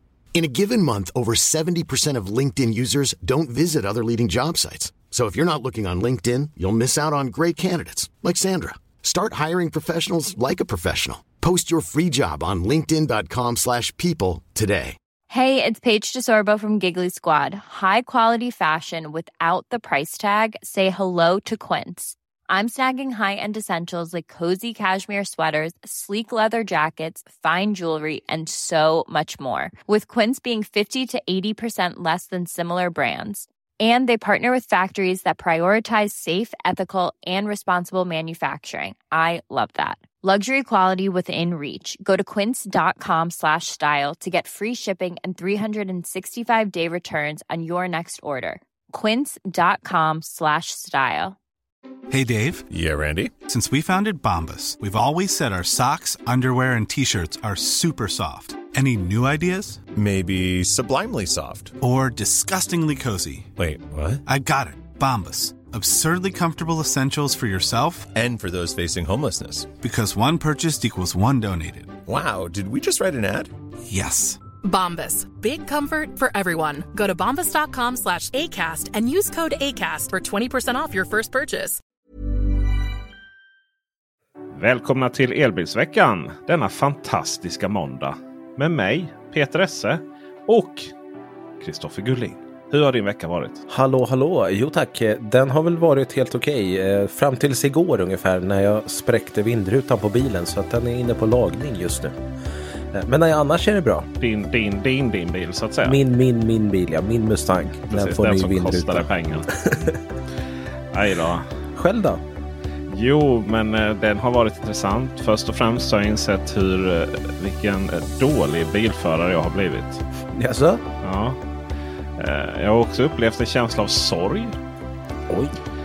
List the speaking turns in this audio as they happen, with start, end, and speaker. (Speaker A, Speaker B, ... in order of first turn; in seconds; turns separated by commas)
Speaker A: 0.3-15.0, Speaker B: 15.3-51.4, Speaker C: 52.1-52.6, Speaker D: 52.7-53.3, Speaker C: 53.4-59.8, Speaker D: 59.9-61.7, Speaker C: 61.8-63.5, Speaker D: 63.5-64.2, Speaker C: 64.2-68.1, Speaker D: 68.1-69.7, Speaker C: 69.8-72.0, Speaker D: 72.0-73.5, Speaker C: 73.9-74.4, Speaker E: 74.6-81.8, Speaker F: 84.5-90.9, Speaker F: 91.6-93.6, Speaker G: 93.7-102.2, Speaker G: 102.9-104.1, Speaker F: 104.2-106.0, Speaker G: 105.8-110.0, Speaker F: 107.9-109.5, Speaker F: 110.9-111.5, Speaker G: 111.7-112.2, Speaker F: 112.9-120.0, Speaker G: 120.3-120.8, Speaker F: 121.0-121.4, Speaker F: 122.2-124.5, Speaker G: 125.3-125.5